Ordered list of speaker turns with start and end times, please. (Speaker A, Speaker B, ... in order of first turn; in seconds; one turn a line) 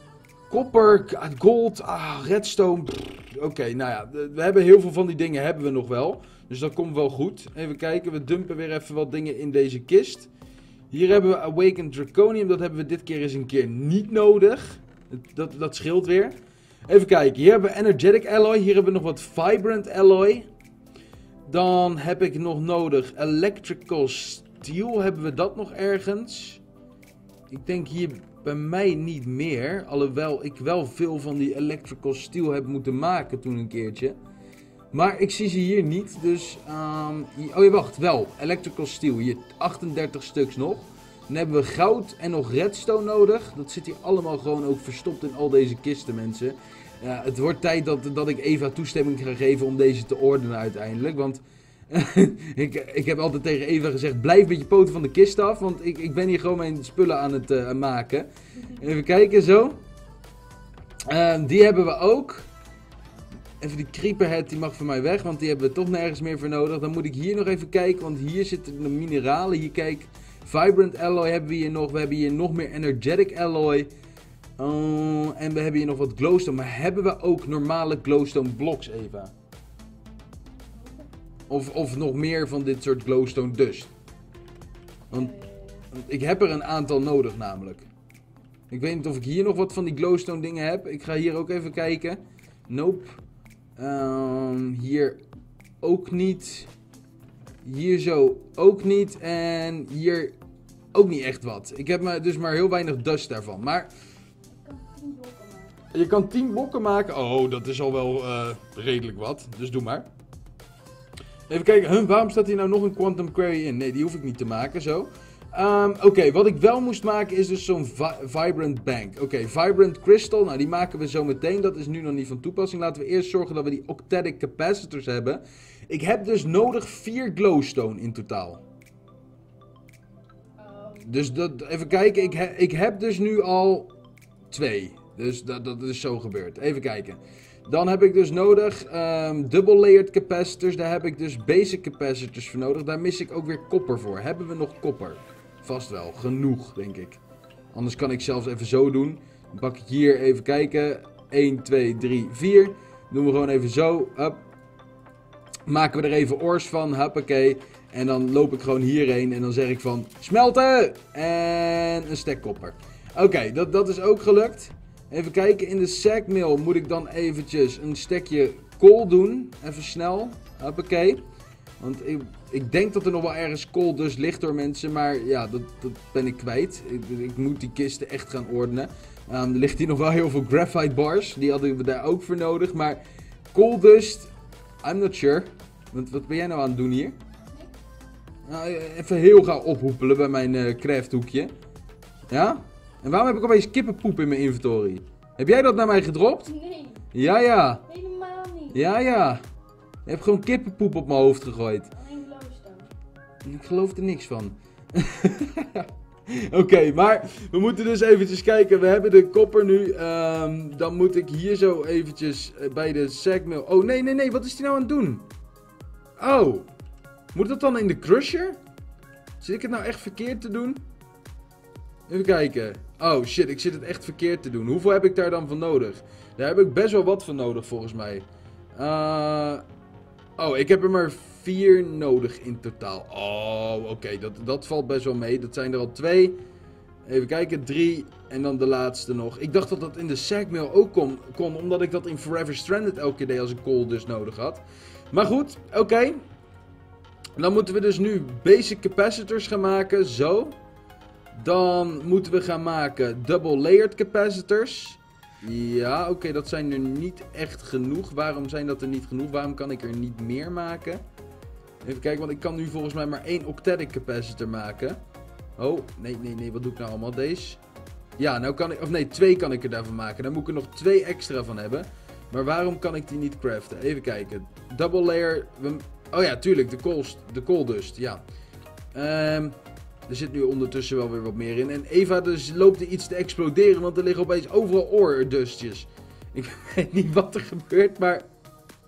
Speaker A: 0.5-10.3
Speaker A: 10.9-16.4
Speaker A: 16.9-20.5
Speaker A: 21.5-26.6
Speaker A: 27.5-34.1
Speaker A: 34.9-59.8
Speaker A: 61.1-62.5
Speaker A: 63.6-73.9
Speaker A: 74.6-79.3
Speaker B: 80.8-81.0
Speaker A: 81.5-83.9
Speaker A: 85.1-85.4
Speaker B: 85.1-85.8
Speaker A: 85.9-87.9
Speaker A: 88.7-93.2
Speaker A: 93.8-95.2
Speaker A: 95.8-96.7
Speaker A: 97.6-100.3
Speaker A: 100.9-103.9
Speaker B: 104.5-105.7
Speaker A: 105.9-110.1
Speaker A: 111.5-128.6
Speaker B: 130.6-131.1
Speaker A: 131.0-133.9
Speaker A: 134.5-147.2
Speaker A: 147.7-154.4
Speaker A: 155.7-171.2
Speaker A: 171.8-183.0
Speaker A: 183.5-184.3
Speaker A: 184.8-187.2
Speaker A: 188.5-191.5
Speaker A: 192.3-196.6
Speaker B: 196.5-197.0
Speaker A: 197.1-197.9
Speaker B: 197.9-198.8
Speaker A: 198.7-199.4
Speaker A: 200.1-201.9
Speaker B: 201.9-202.9
Speaker A: 203.4-215.2
Speaker A: 216.2-216.7
Speaker A: 217.3-218.6
Speaker A: 219.4-220.8
Speaker A: 222.1-229.6
Speaker A: 230.4-236.4
Speaker A: 237.1-246.2
Speaker A: 247.4-250.6
Speaker A: 251.3-261.0
Speaker A: 261.8-265.0
Speaker A: 265.6-267.6
Speaker A: 268.2-278.2
Speaker A: 278.9-288.3